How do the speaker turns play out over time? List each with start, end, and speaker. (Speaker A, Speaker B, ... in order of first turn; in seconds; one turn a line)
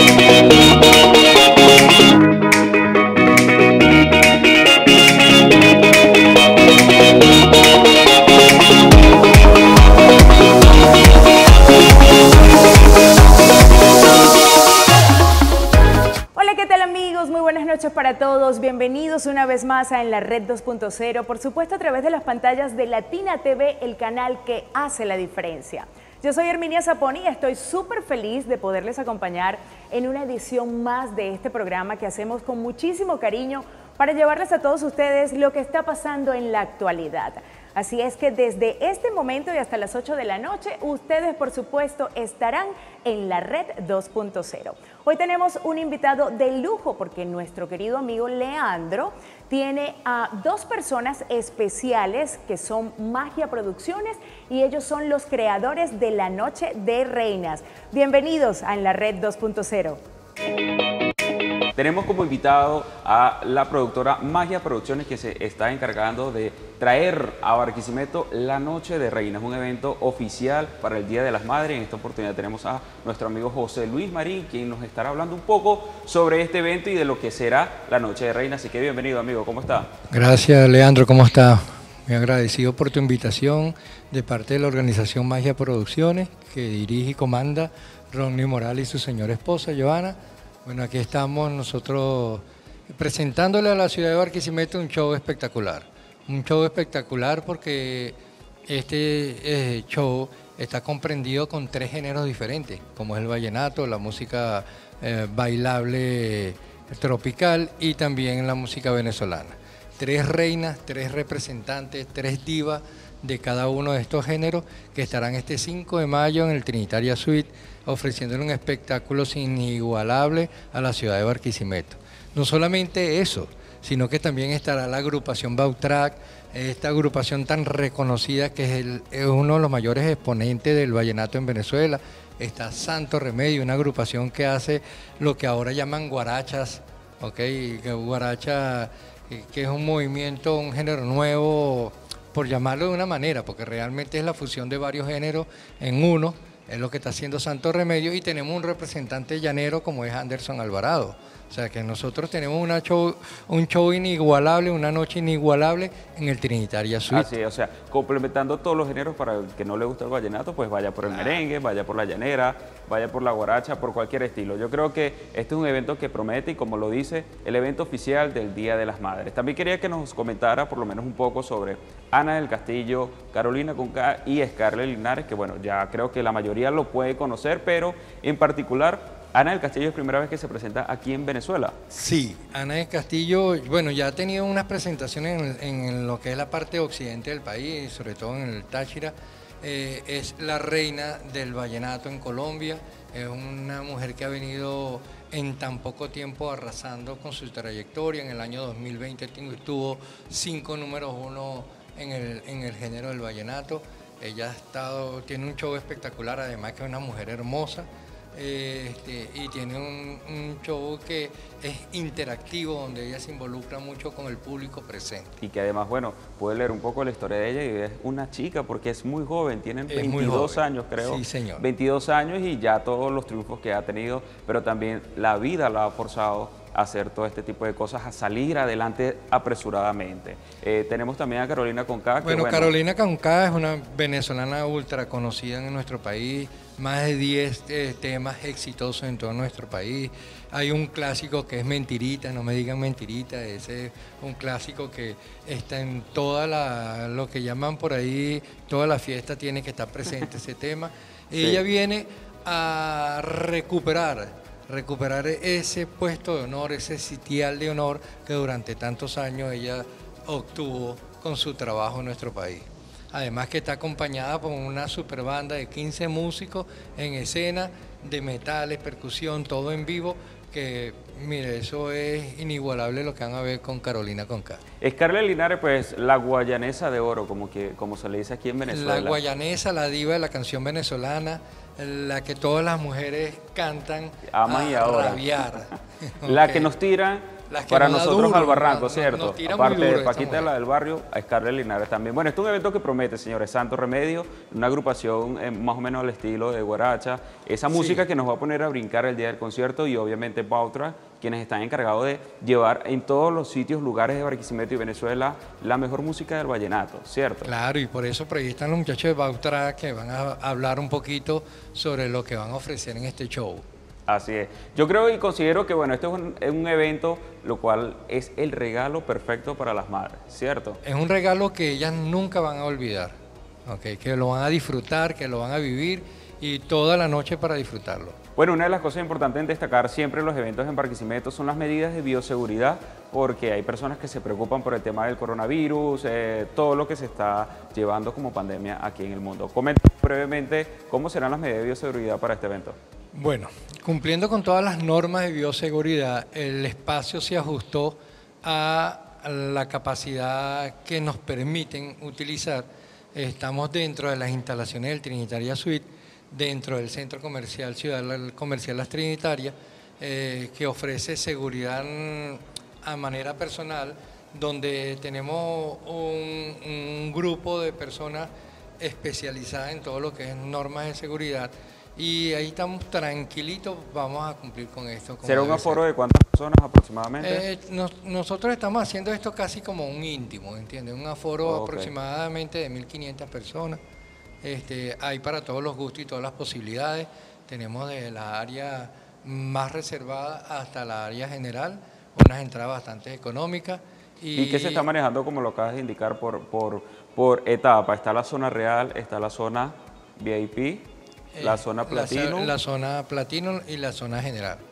Speaker A: 16.4-60.0
Speaker B: 61.8-79.9
Speaker C: 80.1-157.3
Speaker B: 157.1-181.8
Speaker C: 181.9-215.4
Speaker B: 215.4-232.8
Speaker C: 219.9-221.6
Speaker C: 232.2-274.6
Speaker B: 274.8-279.2
Speaker C: 278.6-286.7
Speaker B: 284.3-285.7
Speaker B: 286.2-307.5
Speaker C: 287.5-290.5
Speaker C: 297.7-298.0
Speaker C: 307.4-313.6
Speaker B: 314.1-320.8
Speaker C: 320.8-328.2
Speaker B: 328.4-342.8
Speaker C: 343.1-375.8
Speaker B: 375.2-377.4
Speaker C: 377.2-383.8
Speaker B: 381.4-381.9
Speaker C: 384.4-394.9
Speaker B: 394.3-400.9
Speaker C: 401.3-404.6
Speaker B: 401.4-402.5